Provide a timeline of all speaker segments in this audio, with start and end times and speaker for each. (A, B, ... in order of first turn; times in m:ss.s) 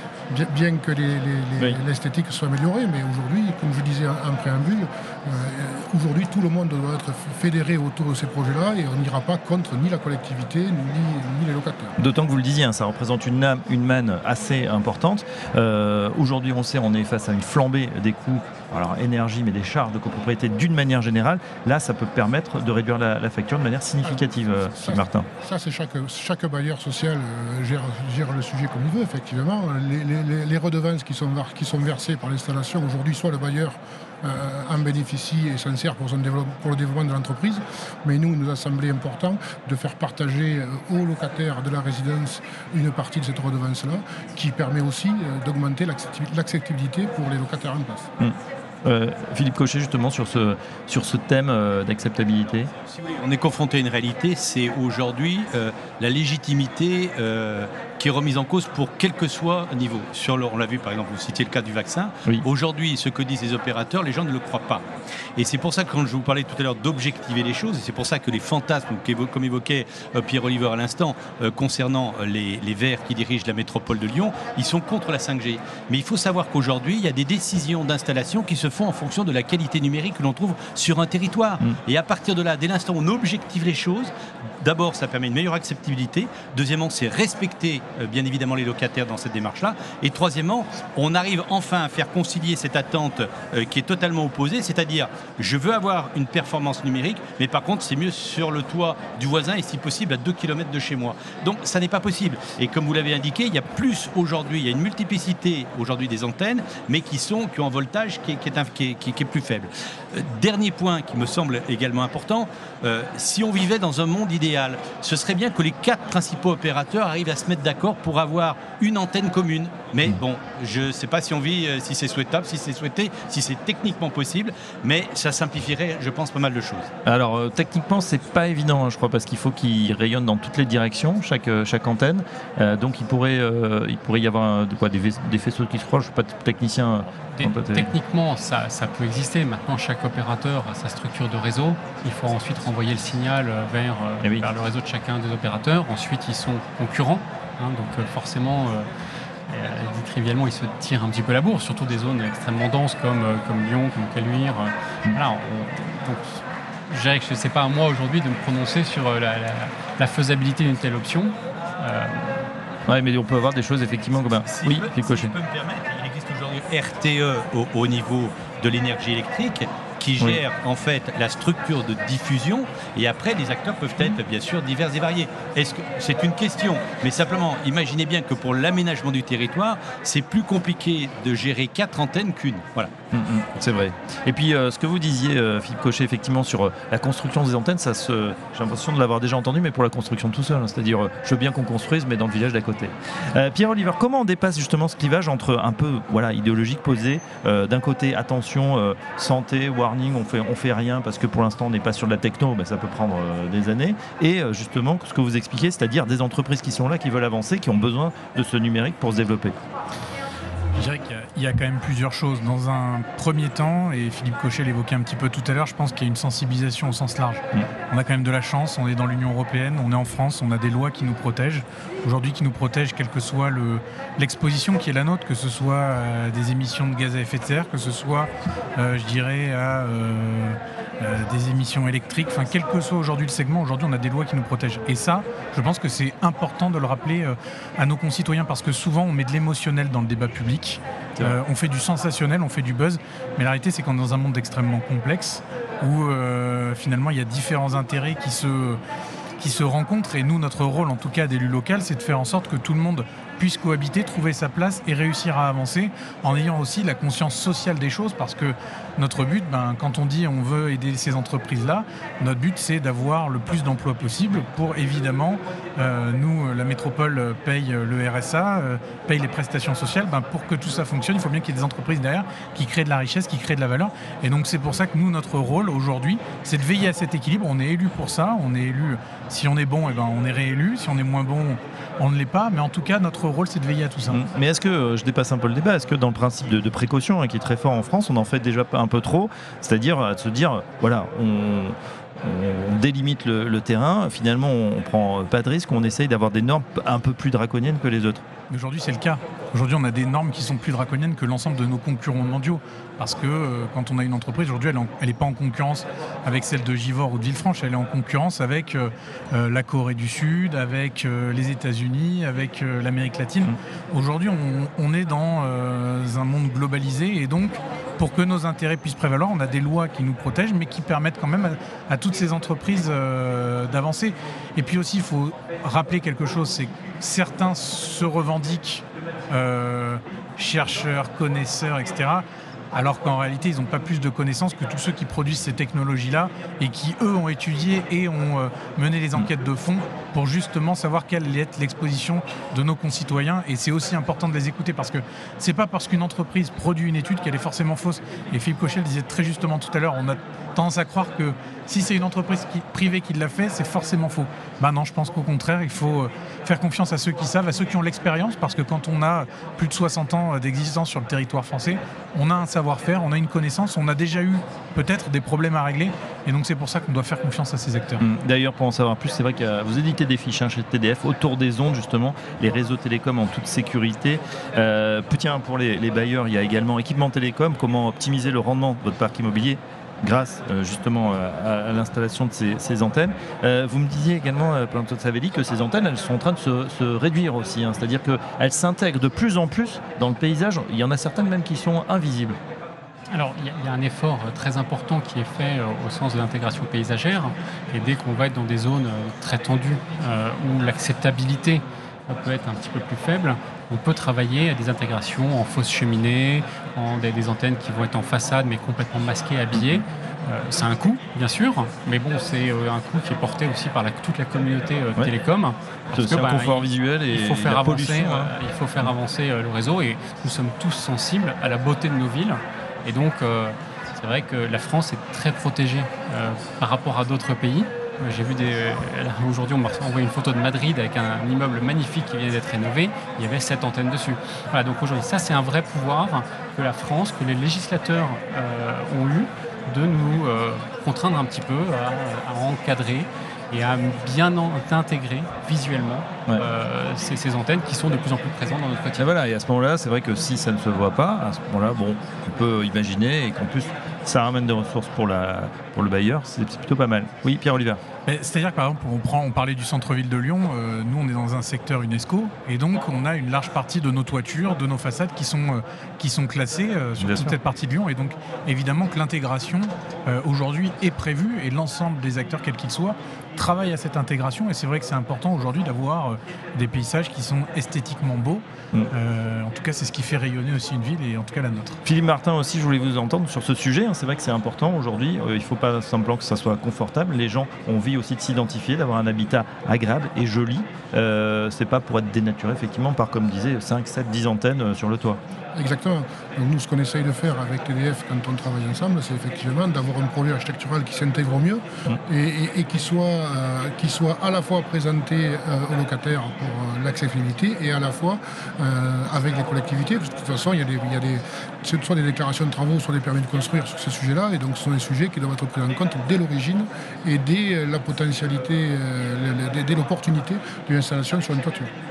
0:00.3-0:12.0 A
0:12.0-0:25.3 B
0:24.0-0:48.1 A
0:48.2-0:52.7 B
0:52.8-1:04.8 C
1:05.4-2:06.9 C
2:07.0-2:17.9 B
2:17.3-2:28.9 D
2:24.2-2:24.5 B
2:29.5-2:42.4 D
2:42.9-2:45.3 B
2:44.5-3:02.9 C
3:03.1-3:29.6 B
3:30.7-4:08.8 E
4:09.4-4:44.2 E
4:44.1-4:58.2 B
4:58.5-6:08.0 E
6:08.0-6:32.4 B
6:33.1-7:29.1 D
6:49.5-6:49.8 B
6:55.9-6:58.3 B
7:29.0-7:37.8 B
7:38.0-8:01.8 E
7:47.0-7:47.4 B
8:01.8-8:15.2 B
8:15.5-8:41.7 A